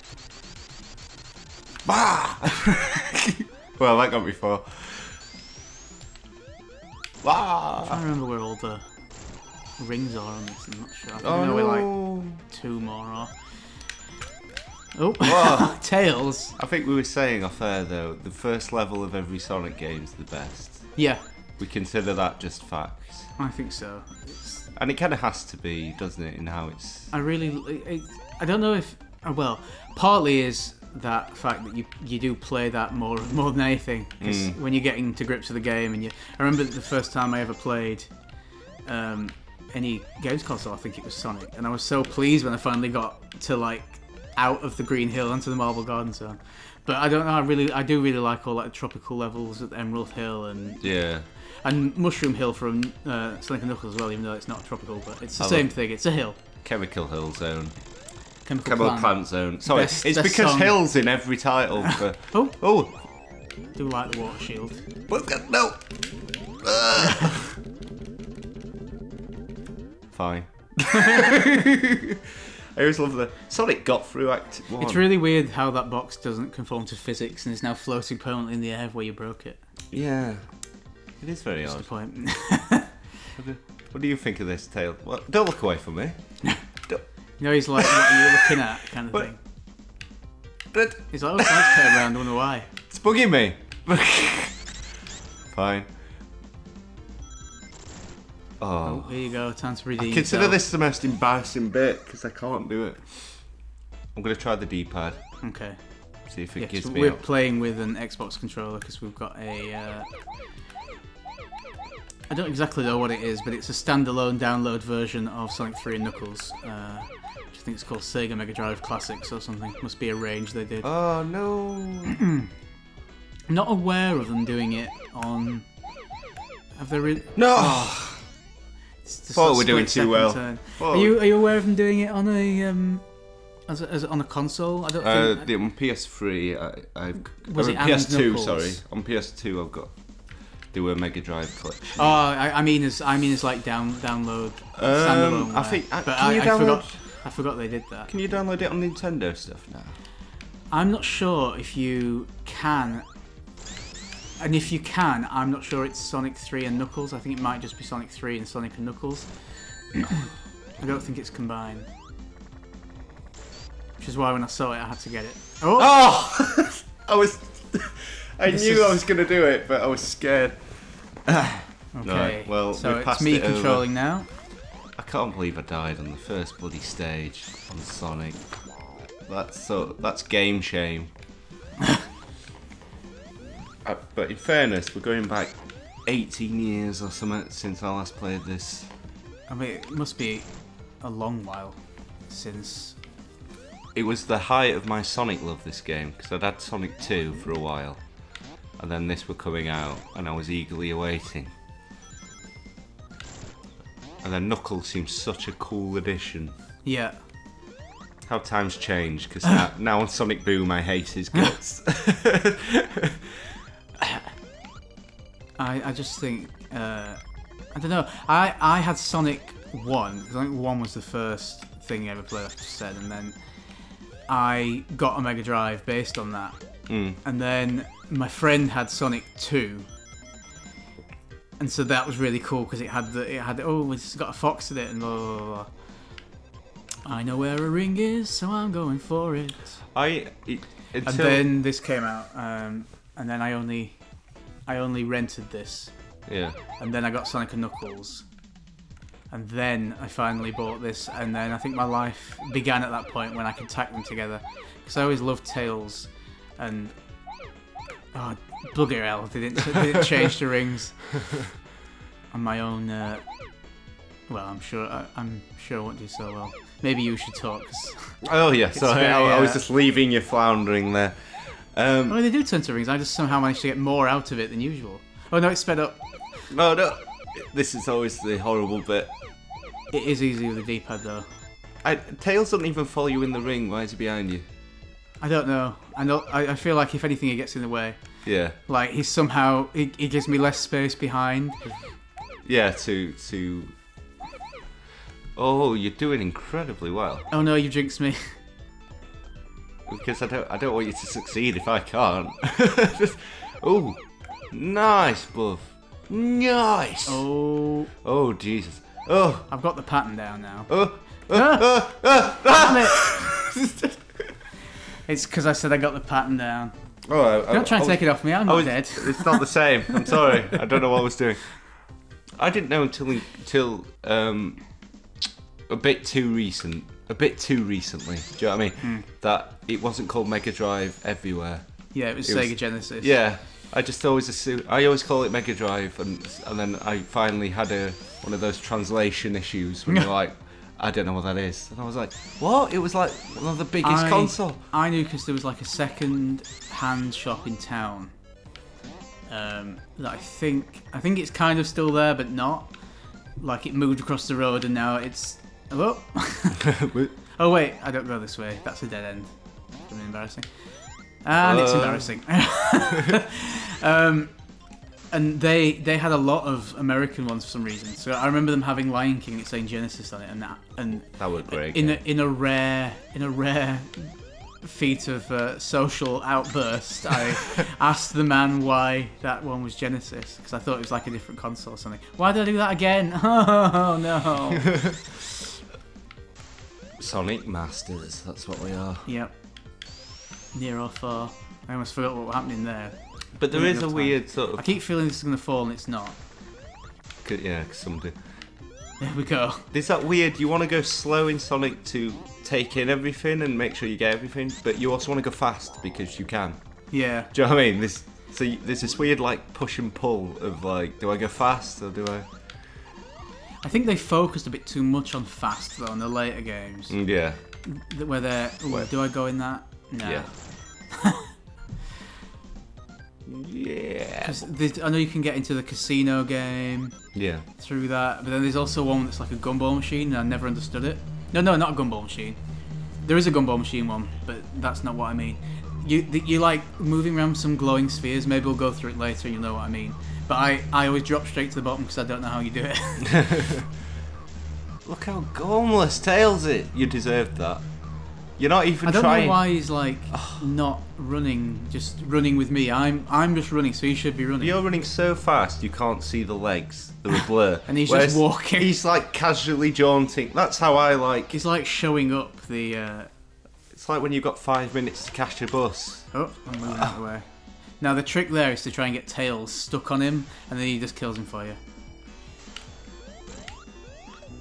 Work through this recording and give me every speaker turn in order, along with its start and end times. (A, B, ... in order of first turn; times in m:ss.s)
0:01.8-0:05.2 A
0:07.2-0:08.0 A
0:07.8-0:08.9 B
0:09.8-0:13.9 B
0:11.2-0:12.4 A
0:15.0-0:16.6 B
0:15.2-0:15.9 A
0:16.6-0:23.4 A
0:21.0-0:21.2 B
0:23.4-0:24.7 B
0:24.7-0:27.1 A
0:27.1-0:38.1 B
0:34.2-0:34.6 A
0:38.8-0:56.4 B
0:50.8-0:51.3 A
0:55.4-0:58.0 A
0:58.4-1:01.2 B
0:58.6-1:03.0 A
1:01.9-1:02.6 B
1:03.7-1:04.8 B
1:05.1-1:07.5 A
1:10.1-1:11.9 A
1:12.8-1:15.1 A
1:14.8-1:19.7 B
1:19.9-1:22.4 A
1:21.7-1:23.1 B
1:23.4-1:27.0 A
1:27.4-1:29.4 B
1:27.8-1:28.6 A
1:30.7-1:31.8 A
1:31.1-1:32.7 B
1:32.9-1:34.8 A
1:35.5-1:36.0 A
1:38.6-1:39.2 A
1:38.8-1:40.6 B
1:40.0-1:45.4 A
1:45.4-1:50.2 B
1:46.3-1:47.2 A
1:52.3-2:01.3 B
2:00.8-2:02.2 A
2:03.5-2:05.7 B
2:06.8-2:07.9 B
2:07.4-2:08.3 A
2:09.0-2:15.5 B
2:09.4-2:11.2 A
2:15.0-2:22.2 A
2:17.2-2:18.8 B
2:22.0-2:28.1 B
2:24.8-2:27.0 A
2:28.1-2:30.0 A
2:30.7-2:33.1 B
2:34.4-2:41.9 B
2:44.0-2:45.9 B
2:45.8-2:53.9 A
2:48.5-2:49.0 B
2:51.9-2:54.3 B
2:54.9-3:01.1 A
3:03.8-3:08.9 A
3:09.5-3:13.0 B
3:13.9-3:21.5 A
3:24.2-3:26.5 A
3:26.8-3:27.3 B
3:28.3-3:33.1 A
3:35.6-3:49.9 B
3:46.9-3:47.2 A
3:51.6-3:55.7 B
3:57.0-3:59.8 B
3:59.9-4:01.4 A
4:01.0-4:08.4 B
4:06.3-4:06.6 A
4:09.3-4:17.5 B
4:18.1-4:21.2 B
4:22.3-4:23.7 B
4:24.3-4:29.6 B
4:28.2-4:32.2 A
4:32.1-4:36.5 B
4:36.5-4:39.1 A
4:39.9-4:41.3 B
4:41.8-4:44.4 A
4:45.2-4:51.8 B
4:48.2-4:48.6 A
4:52.4-4:53.7 A
4:55.4-4:57.3 A
4:57.3-4:58.4 B
4:59.9-5:07.3 A
5:07.1-5:07.9 B
5:08.0-5:09.5 A
5:09.5-5:13.3 B
5:10.7-5:14.0 A
5:15.0-5:20.4 B
5:17.1-5:25.0 A
5:25.7-5:44.6 A
5:31.9-5:33.2 B
5:43.8-5:48.2 B
5:49.3-5:56.8 B
5:56.8-5:57.1 A
5:57.3-6:24.9 B
6:01.4-6:02.8 A
6:11.2-6:12.0 A
6:27.0-6:29.1 A
6:29.0-6:30.0 B
6:30.5-6:36.2 B
6:33.4-6:34.7 A
6:37.2-6:38.3 A
6:39.0-6:39.7 B
6:39.7-6:52.2 A
6:46.9-6:47.3 B
6:53.6-7:01.2 B
6:56.9-6:57.6 A
6:58.7-6:59.4 A
7:00.0-7:00.3 A
7:03.3-7:04.4 A
7:04.2-7:23.4 B
7:07.1-7:07.4 A
7:24.8-7:30.4 A
7:28.8-7:34.6 B
7:34.4-7:41.4 A
7:37.7-7:38.8 B
7:41.3-7:43.1 B
7:43.7-7:46.2 A
7:46.1-7:51.6 B